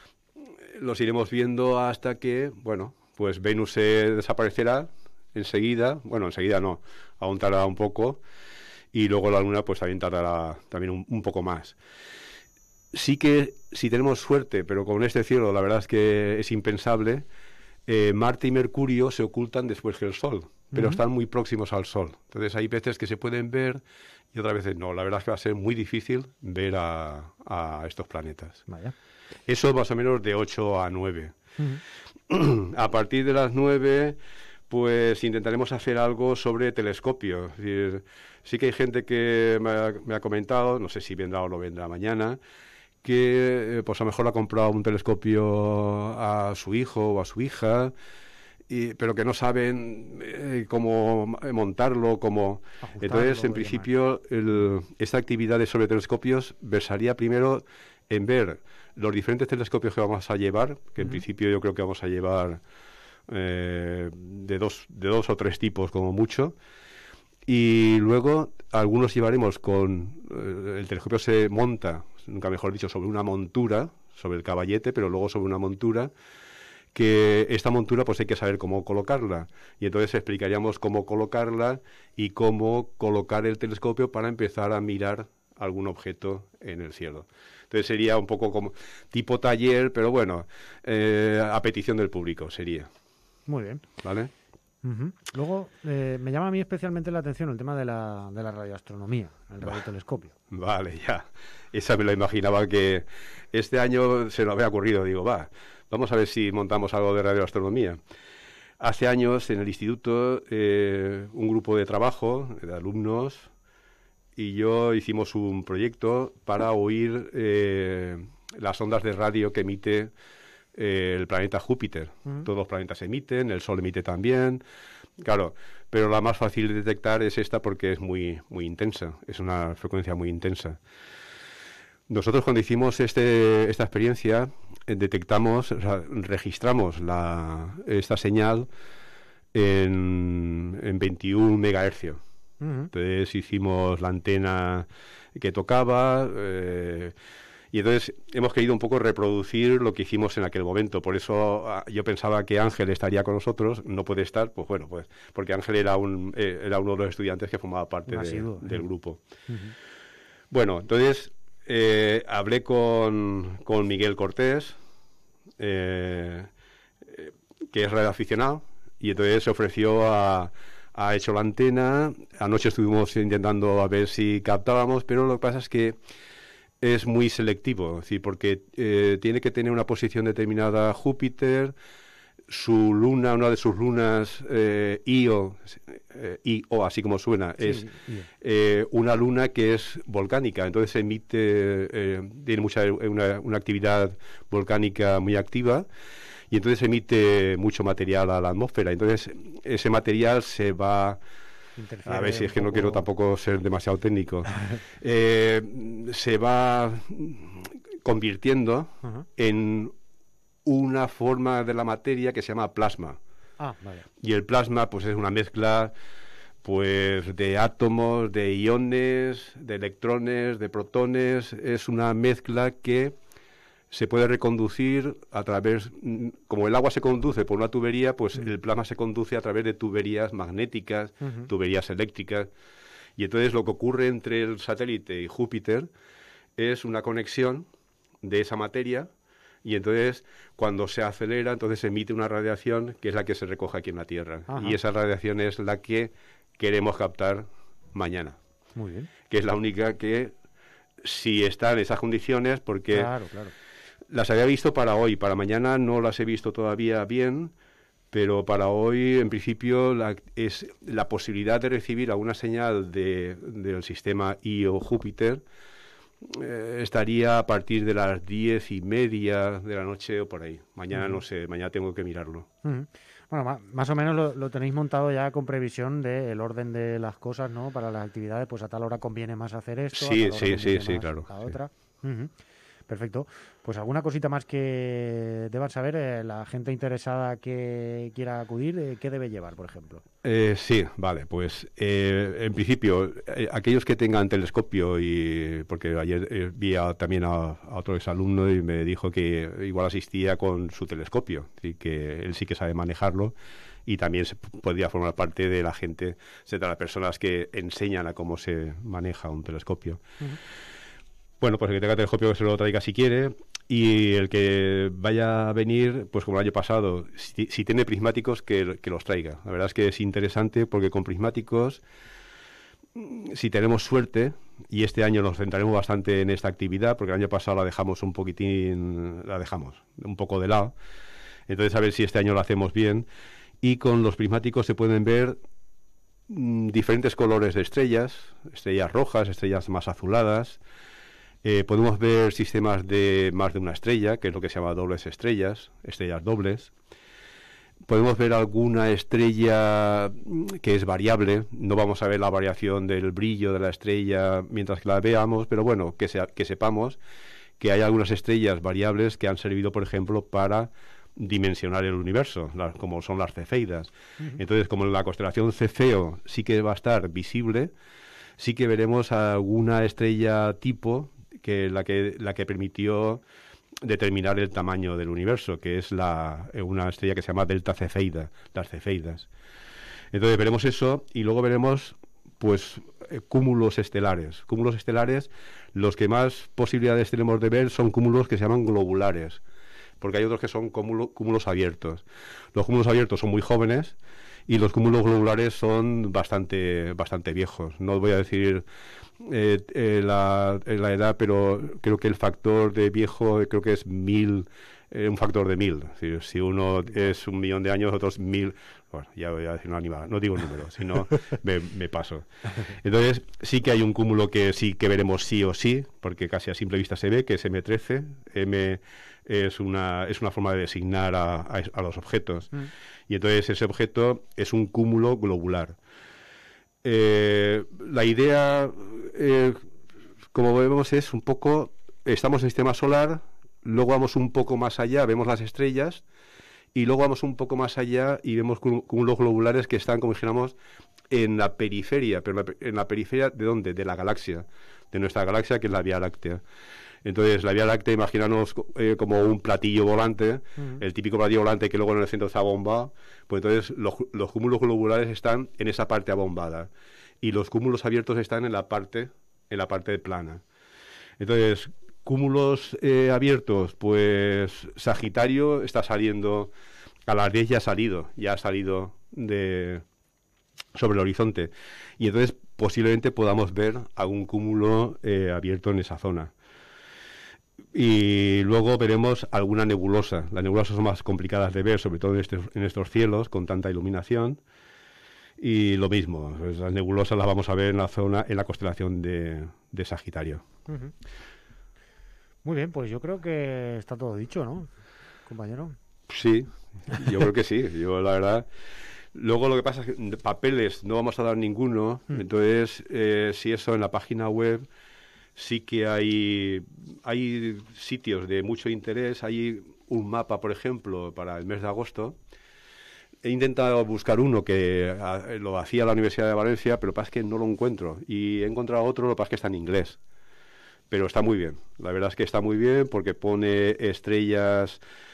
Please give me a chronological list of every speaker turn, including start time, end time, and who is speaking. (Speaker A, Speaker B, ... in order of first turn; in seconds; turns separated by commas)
Speaker A: 0.7-8.2, Speaker A: 8.9-11.8, Speaker A: 12.9-17.3, Speaker A: 17.9-23.8, Speaker B: 20.7-21.0, Speaker A: 24.3-28.6, Speaker B: 28.7-28.9, Speaker A: 29.5-31.4, Speaker A: 32.3-34.2, Speaker A: 34.7-42.4, Speaker A: 43.0-47.9, Speaker A: 48.7-62.6, Speaker B: 52.8-53.9, Speaker A: 63.3-66.5, Speaker A: 67.5-76.1, Speaker A: 76.9-92.9, Speaker B: 93.5-93.8, Speaker A: 94.0-94.3, Speaker B: 94.8-100.3, Speaker A: 100.5-108.0, Speaker A: 108.8-113.5, Speaker A: 114.4-120.1, Speaker A: 120.8-124.6, Speaker A: 125.2-130.8, Speaker A: 132.1-138.7, Speaker A: 139.5-142.2, Speaker B: 142.6-142.9, Speaker A: 142.9-147.1, Speaker A: 147.7-159.2, Speaker B: 158.1-158.8, Speaker B: 159.5-159.8, Speaker A: 160.5-164.8, Speaker A: 165.6-166.5, Speaker A: 167.1-176.0, Speaker A: 176.8-181.7, Speaker A: 182.5-187.8, Speaker B: 187.6-188.3, Speaker A: 188.4-195.9, Speaker A: 196.5-201.2, Speaker B: 201.8-203.1, Speaker A: 202.1-204.5, Speaker A: 205.0-209.9, Speaker A: 210.7-213.2, Speaker B: 213.6-214.1, Speaker A: 214.2-215.9, Speaker A: 216.6-223.1, Speaker A: 223.9-232.5, Speaker B: 231.2-231.5, Speaker A: 233.2-235.9, Speaker A: 236.6-237.7, Speaker A: 238.2-239.1, Speaker A: 239.6-248.4, Speaker B: 244.5-244.8, Speaker B: 248.8-249.1, Speaker A: 249.3-250.3, Speaker A: 251.0-253.1, Speaker B: 252.9-253.5, Speaker A: 254.1-257.5, Speaker A: 258.1-265.4, Speaker A: 266.2-272.5, Speaker B: 272.6-282.3, Speaker A: 279.9-281.5, Speaker B: 282.9-290.0, Speaker A: 290.2-303.3, Speaker A: 303.9-310.0, Speaker A: 311.4-321.8, Speaker A: 322.9-330.7, Speaker A: 331.5-333.1, Speaker A: 333.6-335.4, Speaker A: 336.3-340.6, Speaker A: 341.4-346.7, Speaker A: 347.9-357.0, Speaker A: 357.6-367.7, Speaker A: 368.4-373.2, Speaker A: 373.8-379.3, Speaker A: 380.1-389.4, Speaker A: 390.0-392.0, Speaker A: 392.6-394.0, Speaker A: 394.5-398.6, Speaker A: 399.2-425.8, Speaker A: 426.8-429.6, Speaker A: 430.3-436.0, Speaker A: 436.7-440.6, Speaker A: 441.1-446.4, Speaker A: 447.0-456.7, Speaker A: 457.2-460.4, Speaker A: 461.2-466.5, Speaker A: 467.1-469.8, Speaker A: 470.8-476.3, Speaker A: 477.7-484.4, Speaker A: 485.4-490.4, Speaker B: 490.7-490.9, Speaker B: 492.4-494.7, Speaker B: 495.3-495.8, Speaker A: 496.1-498.5, Speaker A: 499.1-504.6, Speaker A: 505.4-512.2, Speaker A: 513.2-520.0, Speaker A: 520.9-524.8